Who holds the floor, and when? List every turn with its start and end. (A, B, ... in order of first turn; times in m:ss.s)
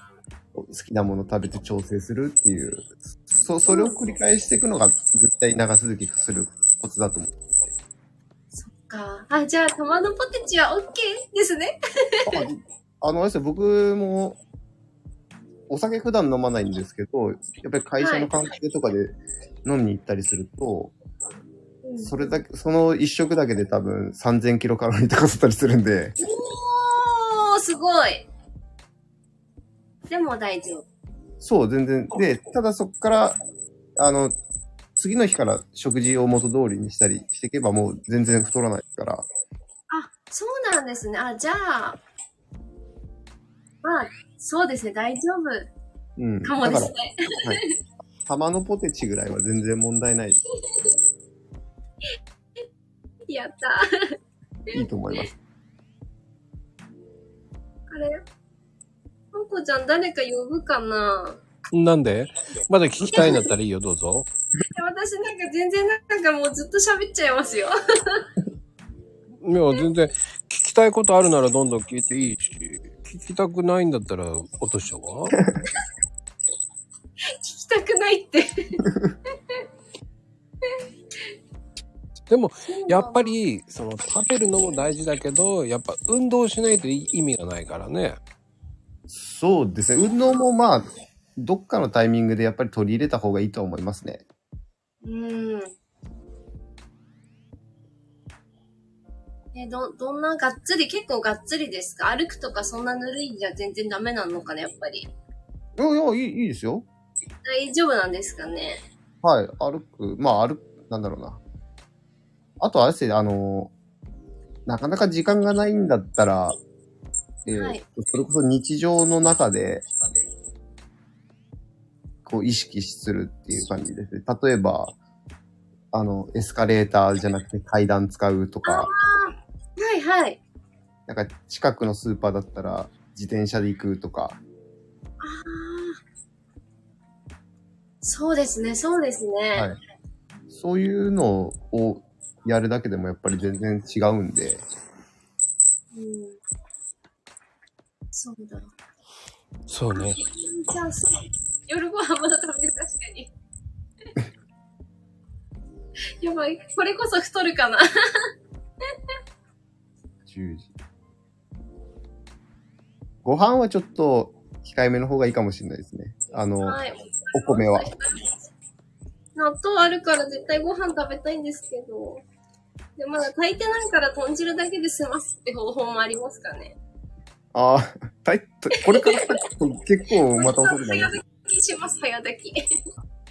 0:00.5-0:07.4 A
0:03.7-0:04.0 B
0:08.5-0:12.4 B
0:12.3-0:14.4 A
0:15.7-0:19.1 A
0:18.0-0:18.3 B
0:19.6-0:20.9 A
0:21.8-0:22.3 B
0:22.0-0:26.2 A
0:26.2-0:28.3 B
0:30.1-0:30.8 B
0:31.4-0:33.4 A
0:34.0-0:34.3 A
0:35.0-0:39.2 A
0:39.9-0:42.0 B
0:43.8-0:45.7 B
0:46.2-0:47.6 A
0:46.4-0:47.7 B
0:48.2-0:50.4 A
0:53.3-0:54.2 B
0:54.7-0:55.2 B
0:54.7-0:55.3 A
0:57.9-0:58.2 B
0:59.3-1:01.4 B
1:01.7-1:04.3 C
1:03.1-1:03.4 B
1:03.1-1:03.4 A
1:04.7-1:08.3 B
1:09.4-1:15.4 C
1:17.4-1:18.8 B
1:18.8-1:19.1 A
1:22.3-1:28.2 C
1:22.6-1:23.3 B
1:29.1-1:34.2 A
1:35.0-1:35.7 B
1:39.5-1:45.1 B
1:45.8-1:46.8 A
1:47.4-1:48.8 B
1:49.2-1:51.4 A
1:52.6-1:53.7 A
1:54.6-1:56.6 A
1:57.4-1:59.8 A
1:57.5-1:57.8 B
2:02.2-2:04.9 A
2:05.9-2:08.9 A
2:08.6-2:10.4 B
2:11.1-2:14.4 A
2:15.2-2:16.0 B
2:18.0-2:19.7 B
2:20.5-2:24.6 A
2:25.9-2:26.4 B
2:28.1-2:28.7 B
2:29.7-2:30.2 C
2:29.9-2:33.3 B
2:36.2-2:38.3 B
2:40.2-2:40.7 A
2:43.2-2:46.8 A
2:46.6-2:48.5 B
2:47.3-2:47.9 A
2:49.4-2:52.2 B
2:53.0-2:56.7 B
2:57.5-3:01.2 A
3:00.4-3:02.6 B